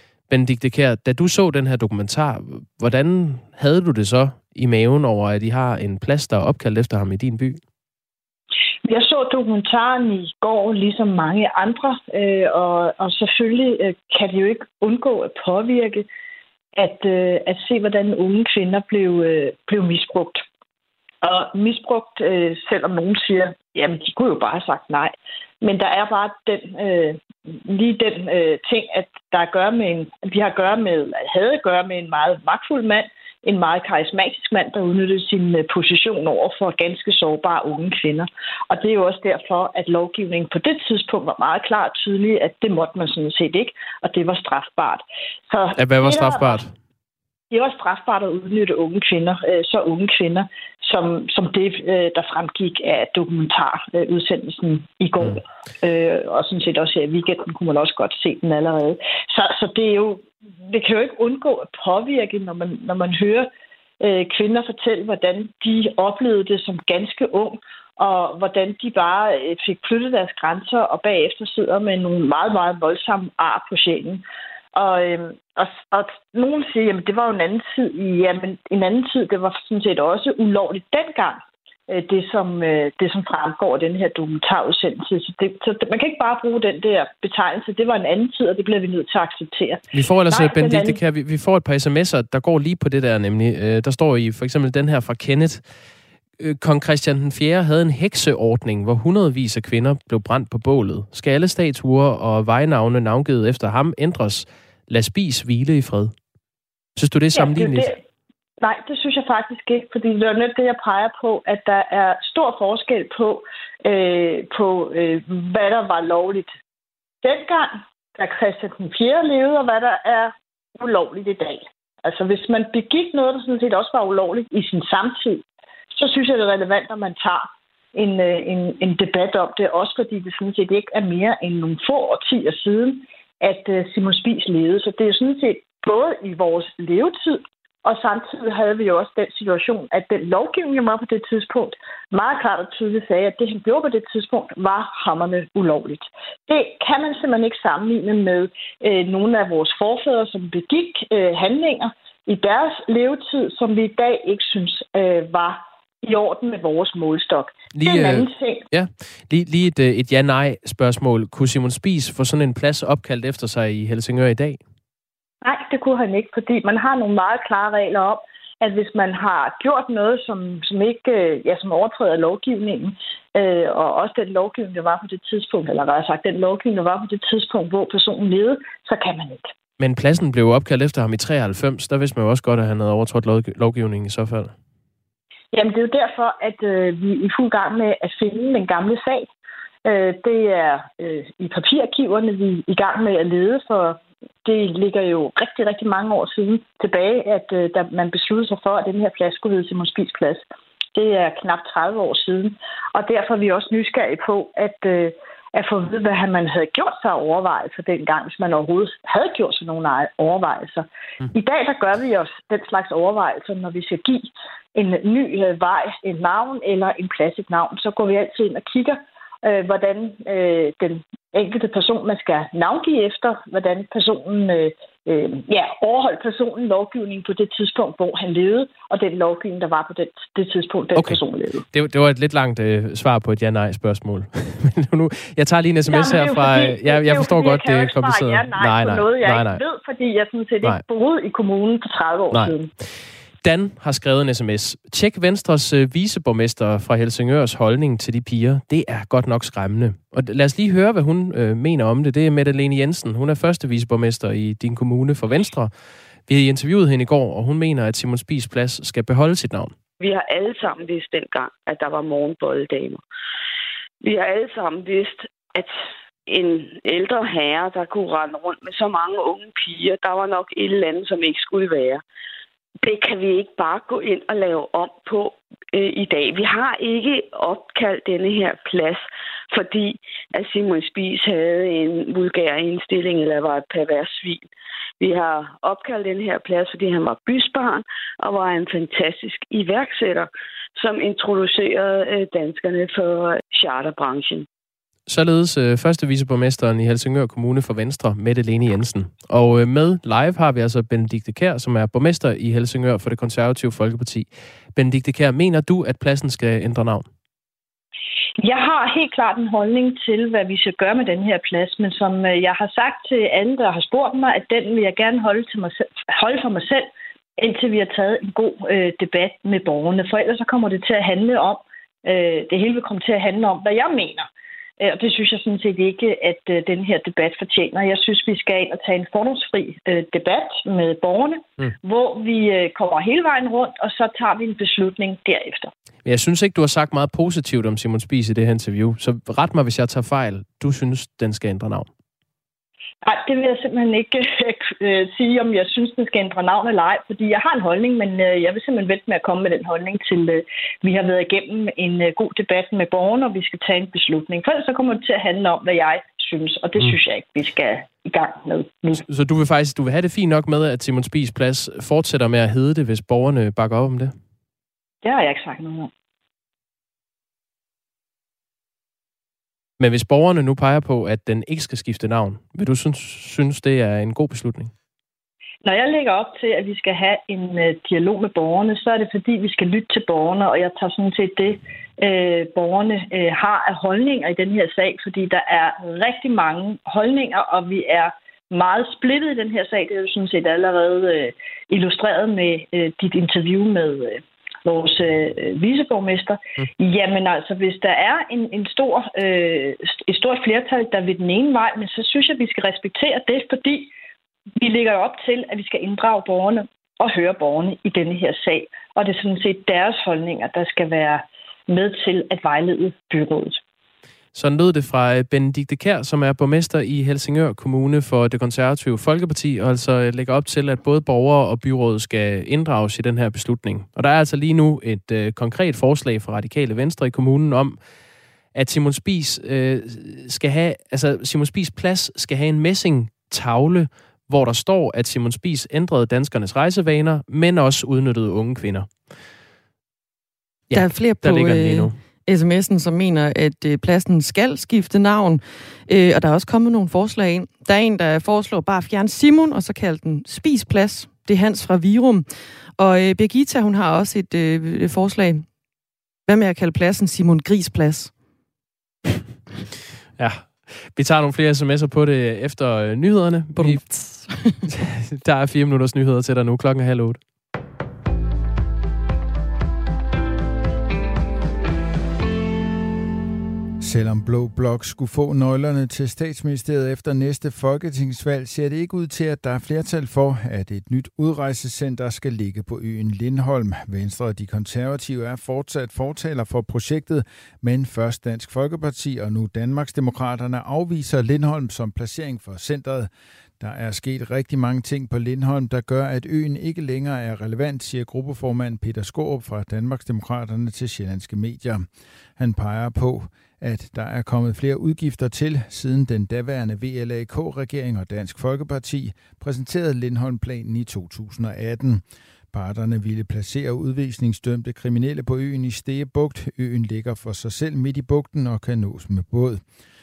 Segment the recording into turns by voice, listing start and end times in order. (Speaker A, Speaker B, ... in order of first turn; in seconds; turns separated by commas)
Speaker A: 0.3-7.6, Speaker B: 8.8-16.1, Speaker B: 16.8-20.4, Speaker B: 21.2-46.6, Speaker A: 45.8-46.7, Speaker B: 47.5-63.5, Speaker B: 64.0-91.0, Speaker A: 89.9-95.7, Speaker A: 96.4-106.1, Speaker A: 107.0-107.9, Speaker B: 107.3-108.0, Speaker B: 108.6-116.5, Speaker B: 117.2-125.4, Speaker B: 126.0-158.7, Speaker A: 157.7-164.6, Speaker B: 165.4-179.5, Speaker A: 179.8-184.5, Speaker B: 185.5-189.3, Speaker B: 189.8-200.4, Speaker B: 200.9-231.7, Speaker A: 230.9-231.2, Speaker A: 231.7-239.6, Speaker B: 235.9-242.7, Speaker A: 243.4-255.7, Speaker A: 256.3-259.8, Speaker C: 260.0-263.0, Speaker C: 264.0-265.7, Speaker C: 266.3-272.0, Speaker C: 272.8-284.5, Speaker C: 285.0-294.5, Speaker A: 295.1-307.1, Speaker B: 308.4-324.3, Speaker B: 324.8-335.7, Speaker A: 336.1-341.9, Speaker B: 343.0-359.0, Speaker A: 359.1-364.1, Speaker B: 365.0-365.9, Speaker A: 369.8-374.7, Speaker B: 375.6-403.9, Speaker B: 404.6-413.6, Speaker A: 414.3-427.8, Speaker A: 428.5-438.9, Speaker A: 440.7-442.0, Speaker D: 440.7-452.3, Speaker D: 452.8-455.5, Speaker D: 456.3-458.1, Speaker A: 460.2-463.8, Speaker D: 463.6-464.6, Speaker A: 464.7-467.2, Speaker E: 473.8-493.1, Speaker E: 493.6-501.9, Speaker E: 502.4-519.6